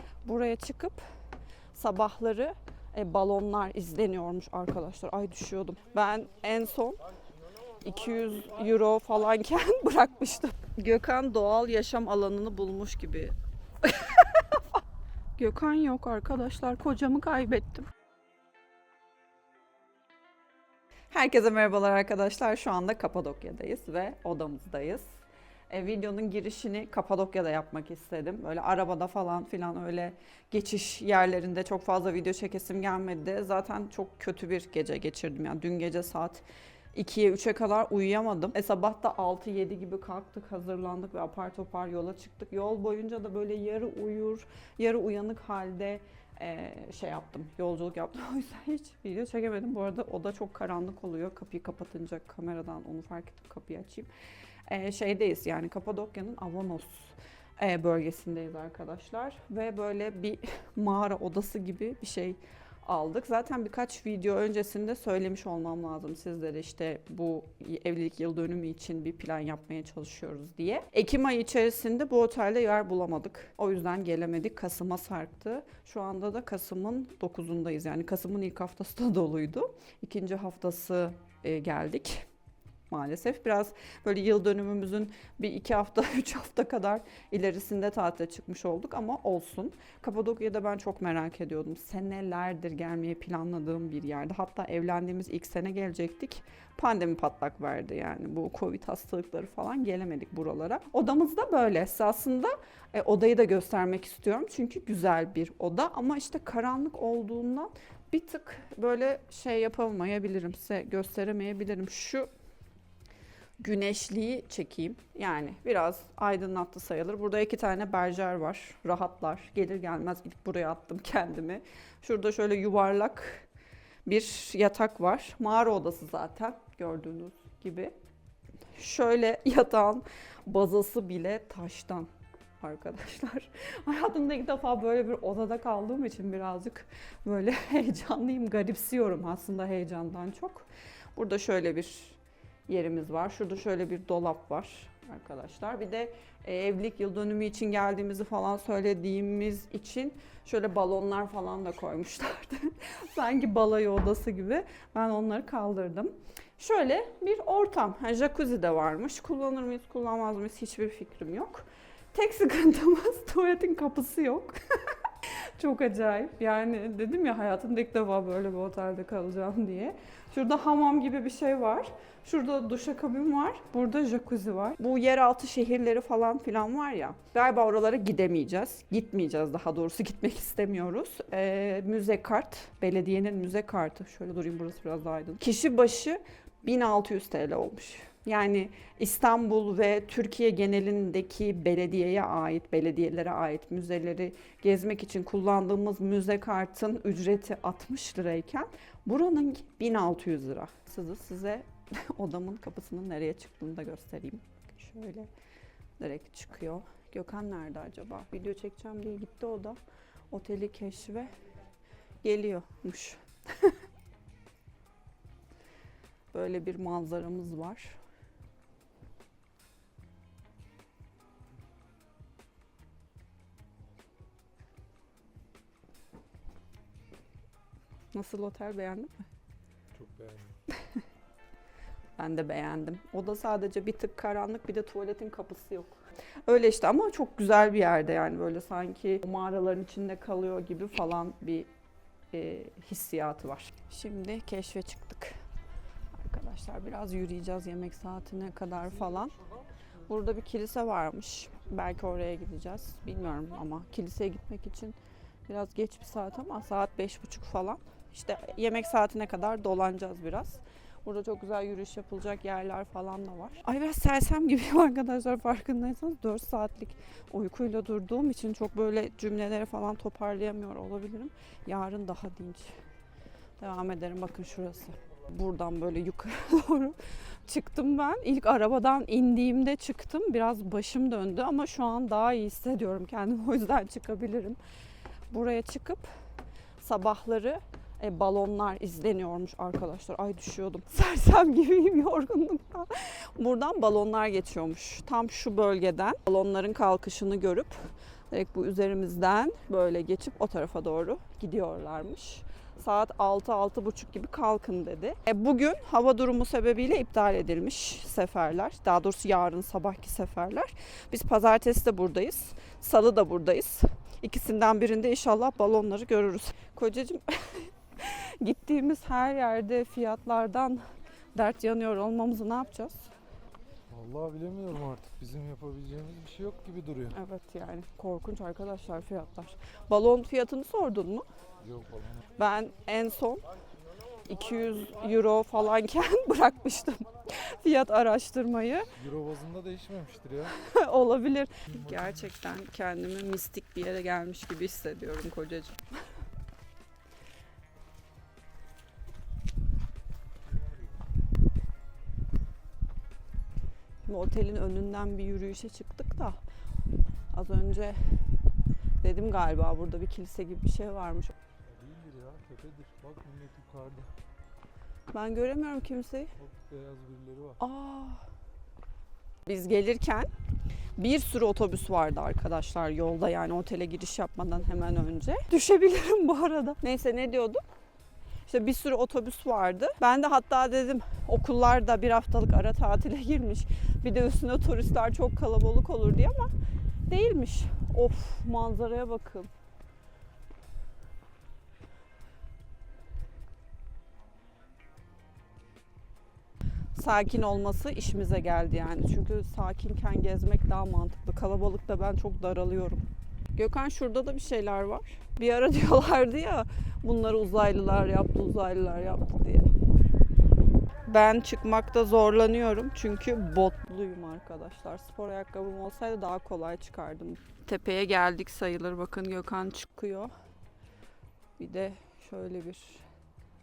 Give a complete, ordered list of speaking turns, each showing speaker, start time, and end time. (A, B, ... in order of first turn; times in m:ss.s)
0:00.2-0:01.0 A
0:01.7-0:07.0 A
0:07.8-0:14.6 A
0:15.4-0:17.9 A
0:21.1-0:54.1 A
0:54.7-1:22.2 A
1:22.9-1:52.3 A
1:53.6-2:03.5 A
2:04.0-2:07.9 A
2:08.8-3:25.3 A
3:26.0-3:29.8 A
3:30.3-3:31.3 A
3:32.2-3:33.8 A
3:36.3-3:38.0 A
3:48.1-3:49.1 A
3:49.9-3:50.6 B
3:52.2-4:01.7 A
4:02.3-4:05.4 A
4:06.1-4:09.4 A
4:08.9-4:09.6 B
4:10.0-4:14.9 A
4:15.5-4:32.7 A
4:33.6-4:44.6 A
4:45.3-4:46.1 A
4:46.8-5:20.8 A
5:21.3-5:23.1 A
5:23.9-5:27.2 B
5:27.1-5:31.2 A
5:31.6-5:32.2 B
5:32.4-5:33.4 A
5:34.2-5:38.9 A
5:39.0-5:40.6 B
5:40.5-5:46.2 A
5:41.7-5:42.2 B
5:50.4-5:51.0 B
5:54.0-5:56.4 A
5:57.3-5:58.4 A
5:59.0-6:01.3 A
6:01.6-6:04.1 B
6:05.1-6:06.3 A
6:06.4-6:07.6 B
6:07.6-6:08.2 A
6:09.4-6:10.3 A
6:11.0-6:17.6 A
6:18.5-6:26.5 A
6:27.1-6:29.5 A
6:36.9-6:49.7 A
6:51.1-7:00.3 A
7:01.6-7:03.0 A